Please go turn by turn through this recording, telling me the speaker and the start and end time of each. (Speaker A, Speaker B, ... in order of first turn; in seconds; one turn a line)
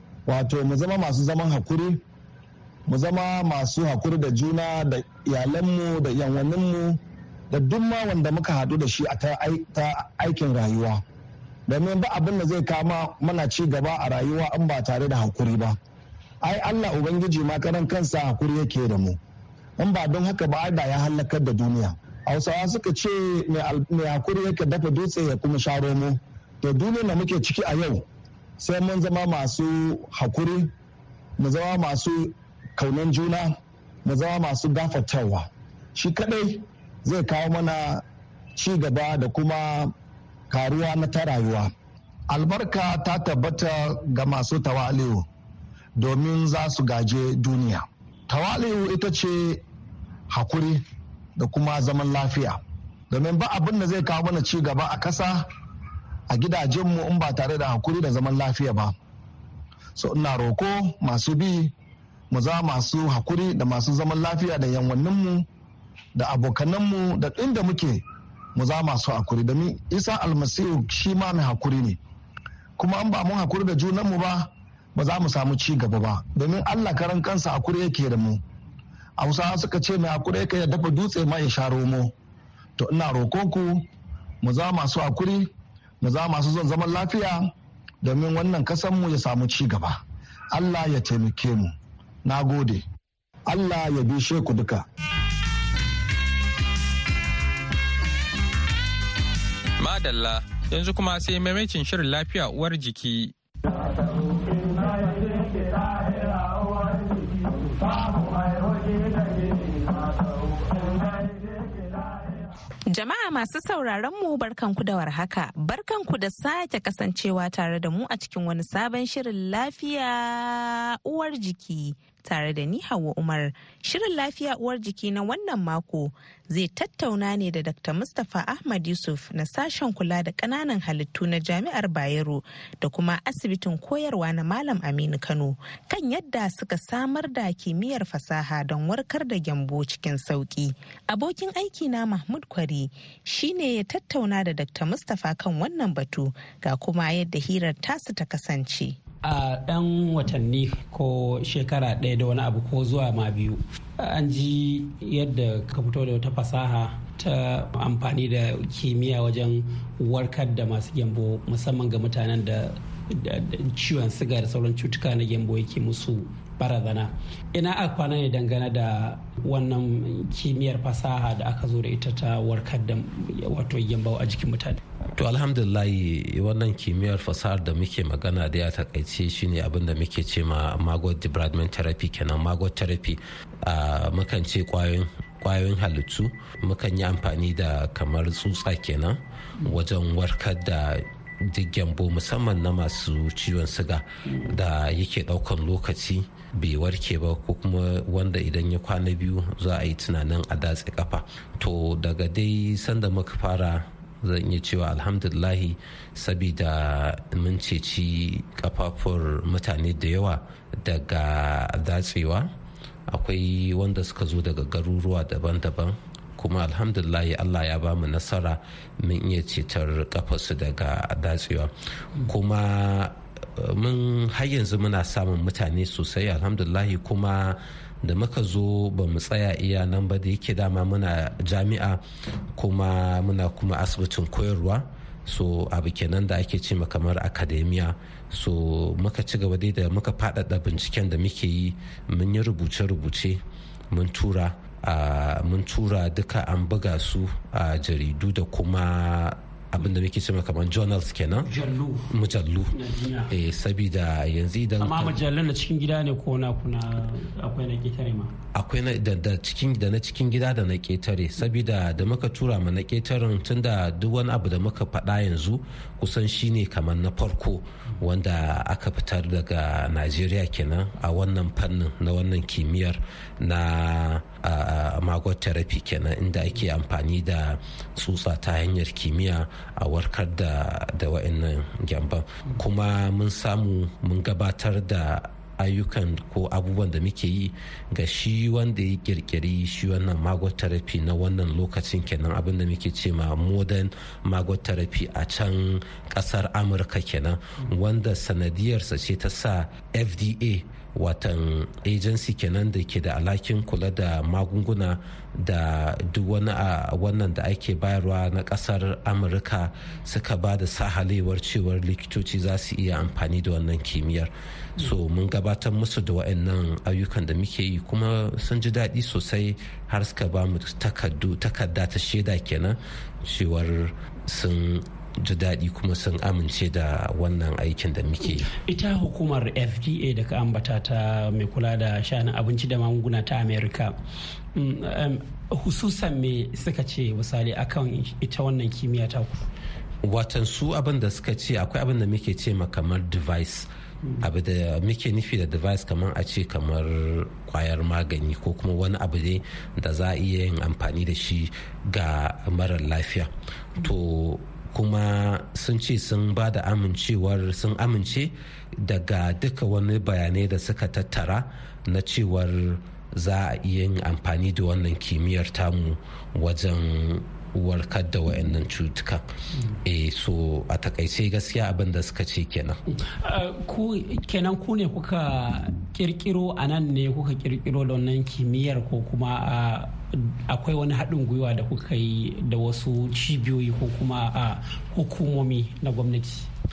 Speaker A: 0.2-2.0
Speaker A: 2.9-7.0
Speaker A: 7.5-11.0
Speaker A: 11.7-15.8
Speaker A: 16.4-19.2
Speaker A: 19.8-28.0
Speaker A: 28.6-30.7
Speaker A: 31.4-38.0
Speaker A: 38.5-39.9
Speaker A: 40.5-41.7
Speaker A: 42.3-45.2
Speaker A: 46.0-49.6
Speaker A: 50.3-50.8
Speaker A: 51.4-52.6
Speaker A: 53.1-55.5
Speaker A: 56.3-58.9
Speaker A: 60.0-61.7
Speaker A: 62.3-65.5
Speaker A: 66.1-68.0
Speaker A: 68.5-72.0
Speaker A: 72.8-78.4
Speaker A: 79.2-82.1
Speaker A: 82.8-83.8
Speaker A: 84.4-85.5
Speaker A: 86.0-87.5
Speaker A: 88.0-90.0
Speaker A: 90.5-92.8
Speaker A: 93.5-94.8
Speaker B: 99.8-103.3
Speaker C: 112.9-149.0
Speaker D: 149.2-174.8
Speaker E: 175.2-212.5
Speaker E: 213.1-232.0
Speaker E: 232.6-251.5
Speaker D: 251.4-252.1
Speaker E: 252.1-252.8
Speaker D: 252.7-253.3
Speaker E: 253.3-255.2
Speaker D: 254.8-258.3
Speaker E: 258.5-328.5
Speaker D: 328.2-333.9
Speaker D: 334.5-339.4
Speaker E: 340.0-343.7
Speaker E: 344.2-369.2
Speaker E: 369.8-372.8
Speaker D: 373.2-386.5